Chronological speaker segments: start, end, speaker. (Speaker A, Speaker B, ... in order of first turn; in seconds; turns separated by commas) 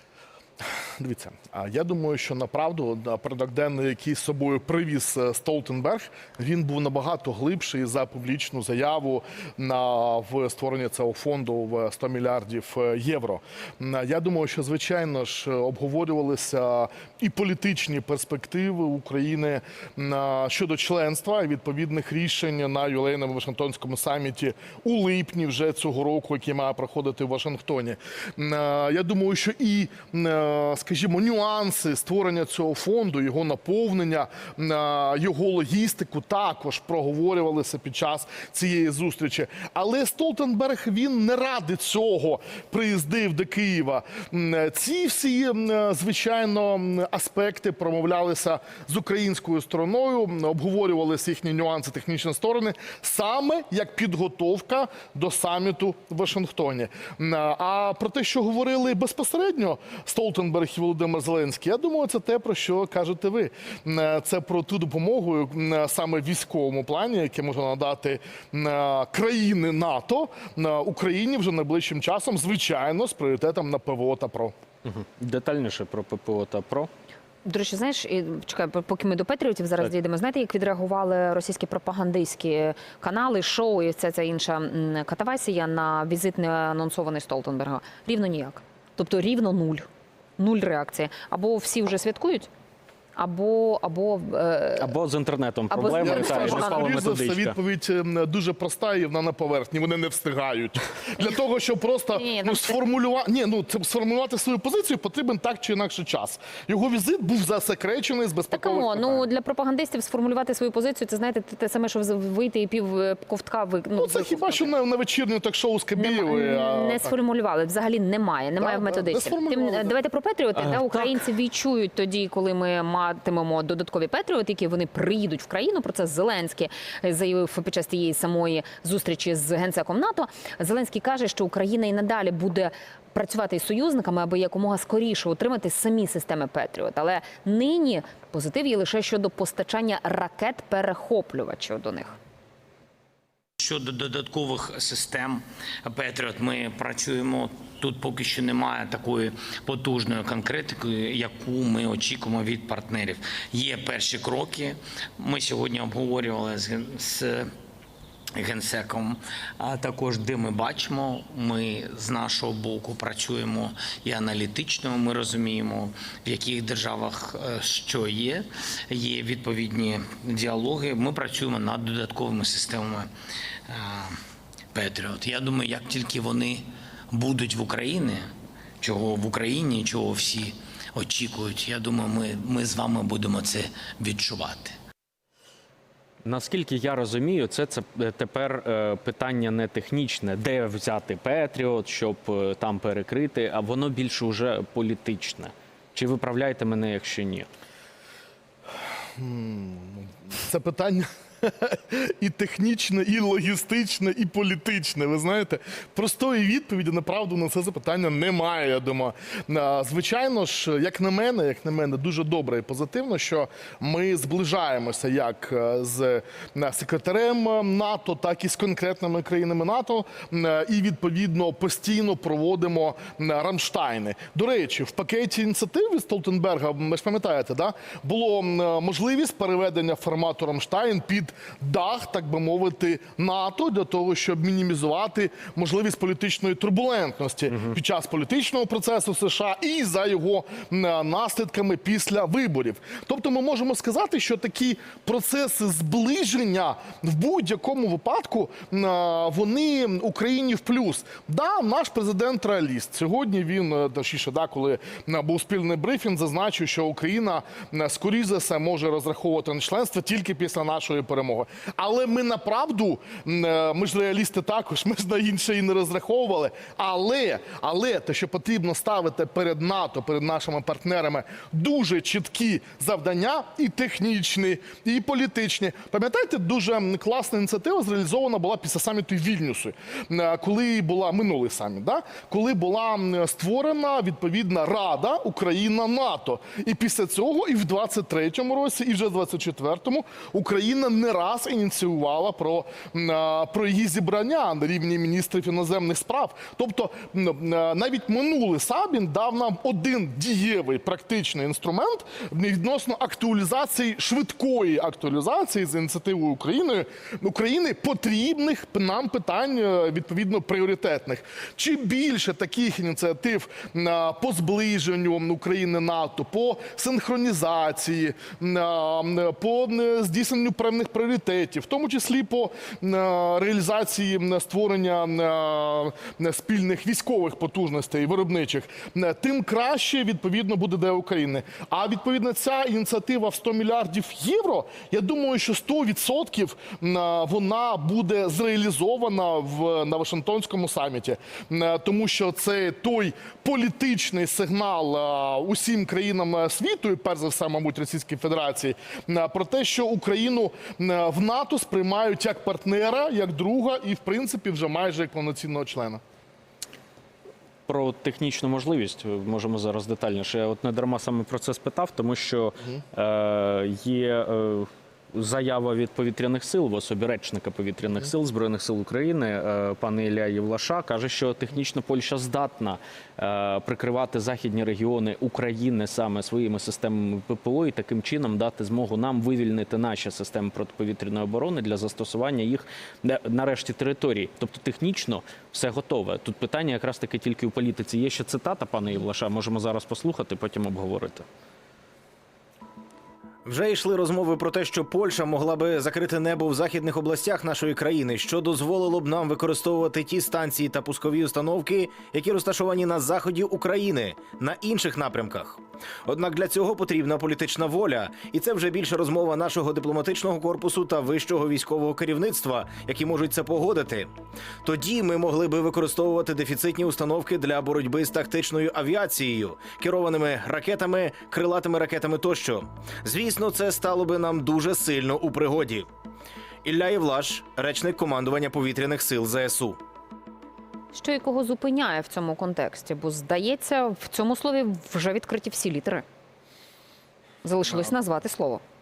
Speaker A: 1.0-74.5, Speaker B: 74.8-76.9, Speaker C: 77.5-92.5, Speaker C: 93.2-94.9, Speaker B: 94.8-97.6, Speaker C: 95.7-96.9, Speaker A: 96.0-109.3, Speaker C: 102.2-102.7, Speaker C: 108.5-114.7, Speaker A: 114.0-117.2, Speaker C: 116.0-142.2, Speaker A: 118.6-120.0, Speaker B: 120.6-121.1, Speaker D: 143.6-157.5, Speaker D: 158.4-173.1, Speaker D: 173.7-174.2, Speaker D: 174.7-178.2, Speaker D: 178.8-184.8, Speaker B: 186.2-197.5, Speaker A: 199.2-356.0, Speaker B: 357.7-391.2, Speaker E: 393.4-414.1, Speaker E: 414.6-425.9, Speaker E: 426.6-429.8, Speaker C: 430.9-436.0, Speaker C: 437.4-438.6